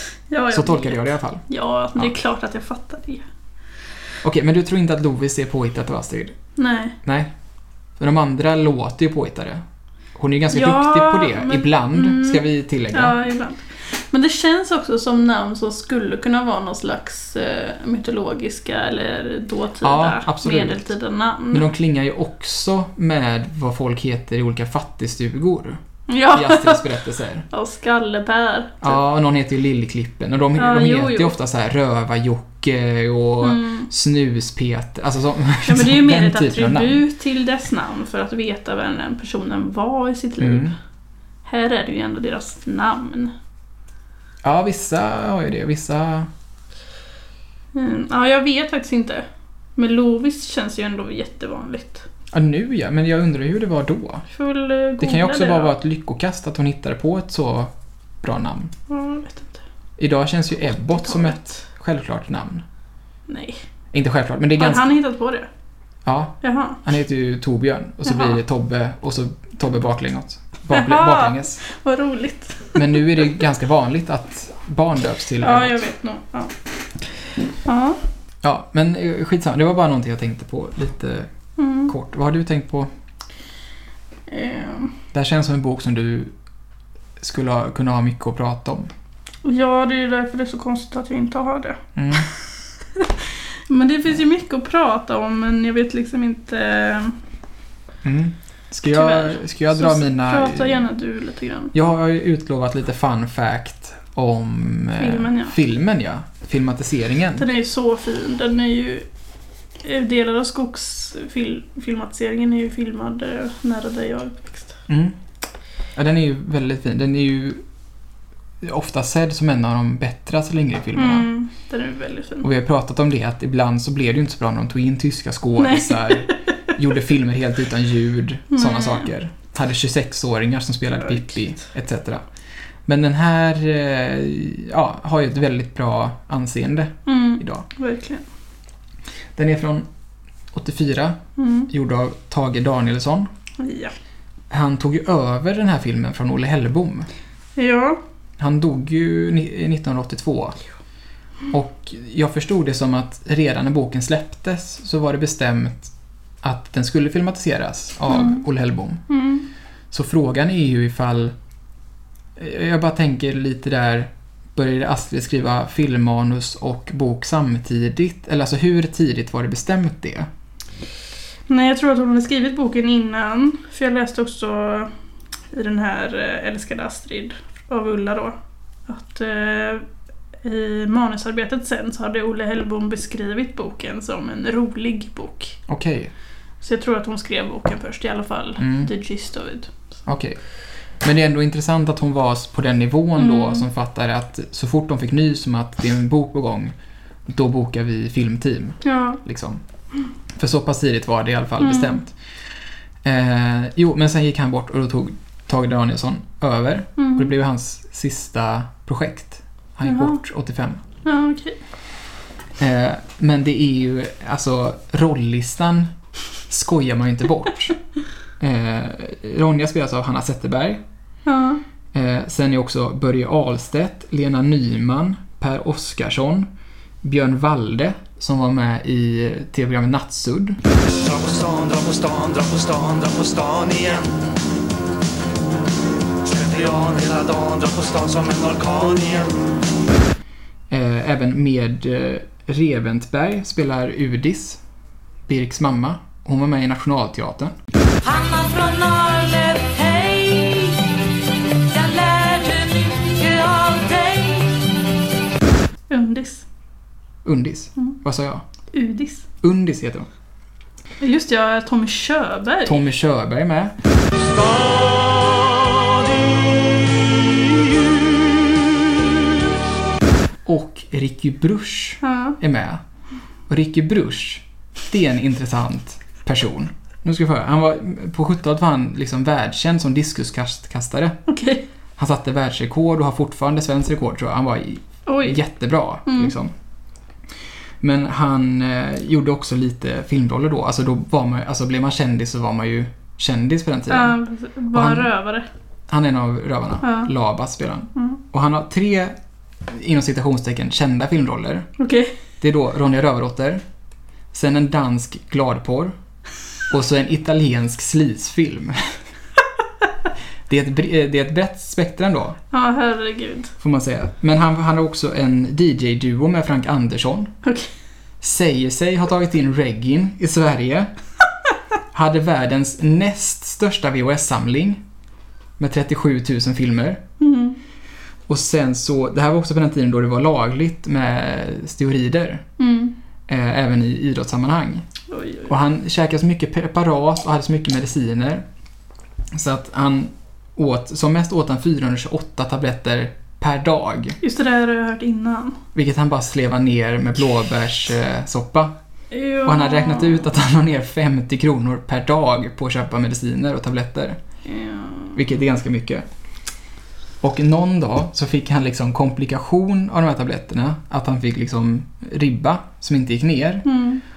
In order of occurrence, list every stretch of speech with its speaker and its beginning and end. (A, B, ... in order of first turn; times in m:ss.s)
0:00.3-0:03.2 A
0:00.5-0:01.4 B
0:04.2-0:06.4 B
0:06.6-0:07.0 A
0:07.0-0:07.3 B
0:08.0-0:09.6 B
0:10.1-0:13.2 B
0:10.5-0:21.7 A
0:19.8-0:20.9 B
0:21.5-0:25.8 B
0:26.1-0:26.9 A
0:26.3-0:27.4 B
0:27.5-0:29.0 A
0:28.8-0:37.0 B
0:30.6-0:31.4 A
0:33.4-0:33.9 A
0:35.6-0:40.7 A
0:40.4-0:40.7 B
0:41.4-0:43.3 A
0:44.4-0:46.3 B
0:47.7-0:52.0 A
0:52.3-0:54.2 B
0:54.3-0:55.7 A
0:55.0-0:58.7 B
0:58.9-0:59.6 A
1:00.0-1:02.6 B
1:00.7-1:01.5 A
1:03.3-1:03.6 A
1:03.9-1:04.9 B
1:04.6-1:05.5 A
1:06.0-1:11.6 B
1:06.4-1:06.8 A
1:08.1-1:08.4 A
1:10.7-1:12.8 A
1:12.7-1:15.8 B
1:15.4-1:18.0 A
1:18.4-1:21.3 B
1:21.6-1:21.9 A
1:21.9-1:22.9 B
1:24.3-1:24.9 A
1:25.1-1:26.3 B
1:27.2-1:28.9 B
1:29.4-1:31.8 A
1:32.0-1:32.3 B
1:32.9-1:37.2 A
1:38.0-1:40.8 B
1:38.9-1:41.7 A
1:41.7-1:47.4 B
1:45.0-1:45.6 A
1:47.4-1:49.1 A
1:49.8-1:54.7 A
1:54.9-1:55.1 B
1:56.0-1:57.6 B
1:58.6-2:01.3 B
2:01.0-2:02.5 A
2:02.4-2:12.2 B
2:05.6-2:06.4 A
2:08.5-2:09.1 A
2:12.9-2:17.6 B
2:17.0-2:18.2 A
2:19.4-2:19.9 B
2:20.5-2:23.3 B
2:21.4-2:21.7 A
2:23.6-2:23.9 A
2:24.5-2:27.1 B
2:27.6-2:28.0 A
2:28.4-2:30.6 B
2:31.5-2:39.0 B
2:38.1-2:38.4 A
2:39.1-2:39.5 A
2:39.9-2:41.3 B
2:42.4-2:50.3 B
2:51.5-2:54.9 A
2:55.5-2:59.8 A
3:00.4-3:05.6 A
3:05.7-3:06.1 B
3:06.6-3:10.0 A
3:08.6-3:08.9 B
3:10.0-3:10.4 B
3:11.0-3:16.7 B
3:13.2-3:13.6 A
3:17.3-3:19.6 B
3:18.8-3:19.2 A
3:20.4-3:22.1 B
3:21.6-3:22.0 A
3:23.0-3:30.8 B
3:27.0-3:27.3 A
3:29.8-3:30.2 A
3:31.0-3:31.6 A
3:32.6-3:35.9 B
3:36.5-3:37.8 B
3:38.4-3:40.8 B
3:41.2-3:41.6 A
3:41.9-3:46.5 B
3:47.0-3:50.6 B
3:51.1-3:52.0 C
3:51.1-3:54.2 D
3:56.3-3:59.3 D
4:00.7-4:04.6 B
4:05.3-4:07.5 B
4:08.0-4:10.8 C
4:11.7-4:14.6 C
4:15.9-4:16.4 A
4:17.2-4:18.4 B
4:18.7-4:19.2 A
4:19.4-4:20.1 B
4:21.0-4:22.8 A
4:22.6-4:23.7 B
4:30.4-4:32.8 B
4:32.0-4:32.4 A
4:33.5-4:41.2 B
4:41.3-4:41.6 A
4:42.0-4:46.5 B
4:45.0-4:45.4 A
4:46.0-4:46.3 A
4:47.8-4:54.2 B
4:53.9-4:55.5 A
4:54.7-4:55.1 B
4:55.9-4:59.2 B
4:56.8-4:57.1 A
4:59.7-5:01.7 B
5:01.8-5:02.1 A
5:02.4-5:03.6 B
5:04.3-5:06.0 B
5:06.7-5:09.0 B
5:10.5-5:12.4 B
5:12.5-5:13.5 A
5:13.6-5:17.3 B
5:17.4-5:17.7 A
5:18.2-5:20.9 B
5:21.9-5:24.8 B
5:25.6-5:27.0 B
5:27.2-5:27.6 A
5:28.3-5:32.4 B
5:32.6-5:32.9 A
5:33.3-5:34.8 B
5:35.1-5:35.5 A
5:35.5-5:38.4 B
5:39.3-5:44.2 B
5:44.2-5:45.6 A
5:45.7-5:48.7 B
5:49.1-5:50.3 A
5:49.4-5:54.2 B
5:54.4-5:55.2 A
5:55.1-5:56.0 B
5:57.2-6:03.7 B
6:03.6-6:04.0 A